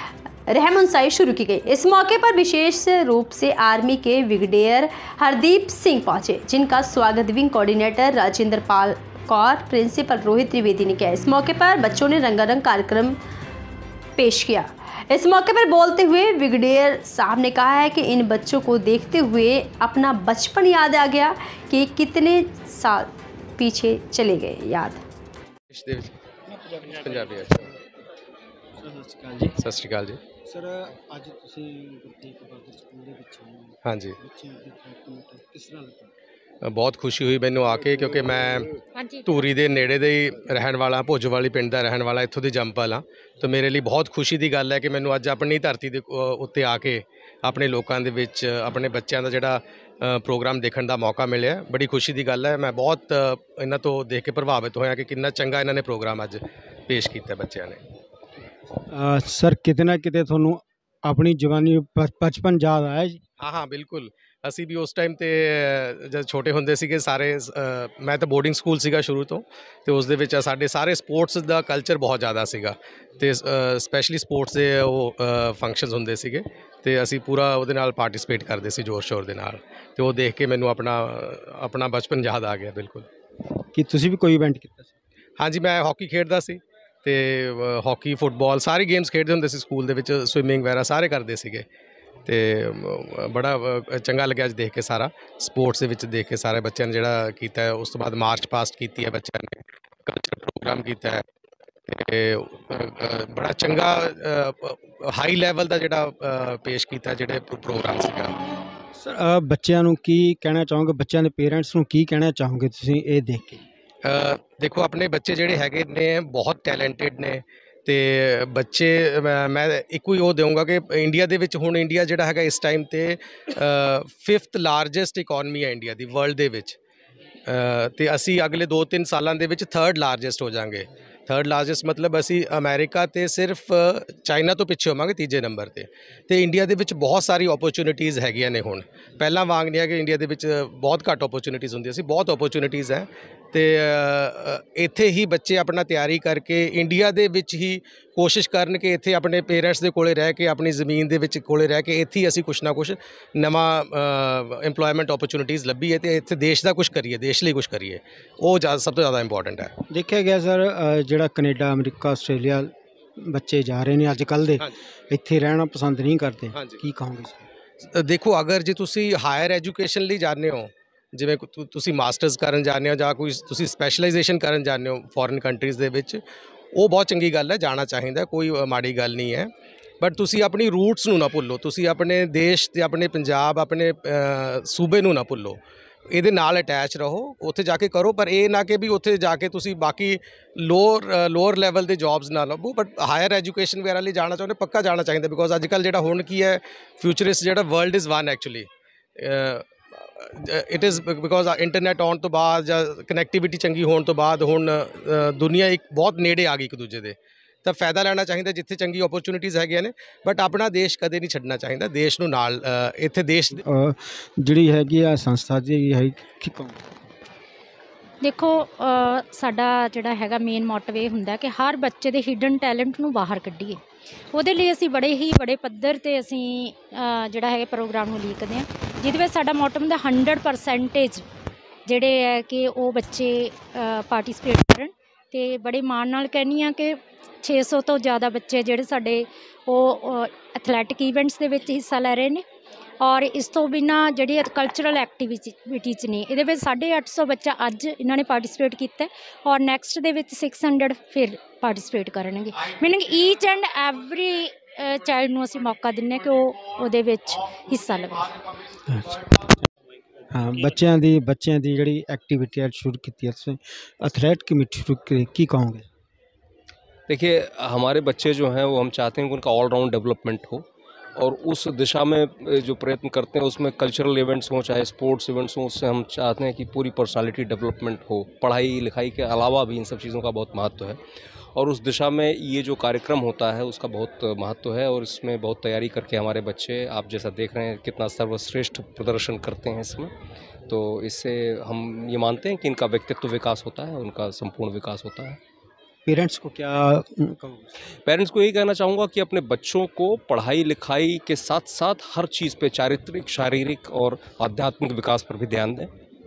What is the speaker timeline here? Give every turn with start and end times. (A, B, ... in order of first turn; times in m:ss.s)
0:00.5-0:13.2 A
0:14.2-0:25.0 A
0:25.7-0:26.2 B
0:26.6-0:27.2 C
0:27.0-0:27.7 B
0:28.8-0:29.6 C
0:29.6-0:30.2 B
0:30.4-0:36.1 C
0:33.8-0:34.2 B
0:36.6-0:38.7 B
0:39.0-0:39.2 D
0:39.2-0:57.8 B
0:58.9-1:03.2 C
1:03.4-1:23.0 B
1:23.7-1:24.9 C
1:25.4-1:31.6 B
1:32.2-1:41.2 B
1:41.9-1:48.4 B
1:49.0-1:53.6 C
1:54.0-2:06.8 B
2:07.5-2:39.7 B
2:39.9-2:47.4 C
2:47.9-2:56.2 B
2:56.7-3:05.6 B
3:06.1-3:33.6 B
3:33.5-3:36.8 C
3:38.2-3:43.8 D
3:44.3-3:51.2 D
3:51.8-4:02.4 D
4:03.0-4:18.5 D
4:18.8-4:19.6 C
4:20.3-4:25.8 C
4:27.1-4:41.0 E
4:41.5-4:50.1 E
4:50.7-4:55.4 E
4:56.0-4:57.7 C
4:58.0-5:05.9 E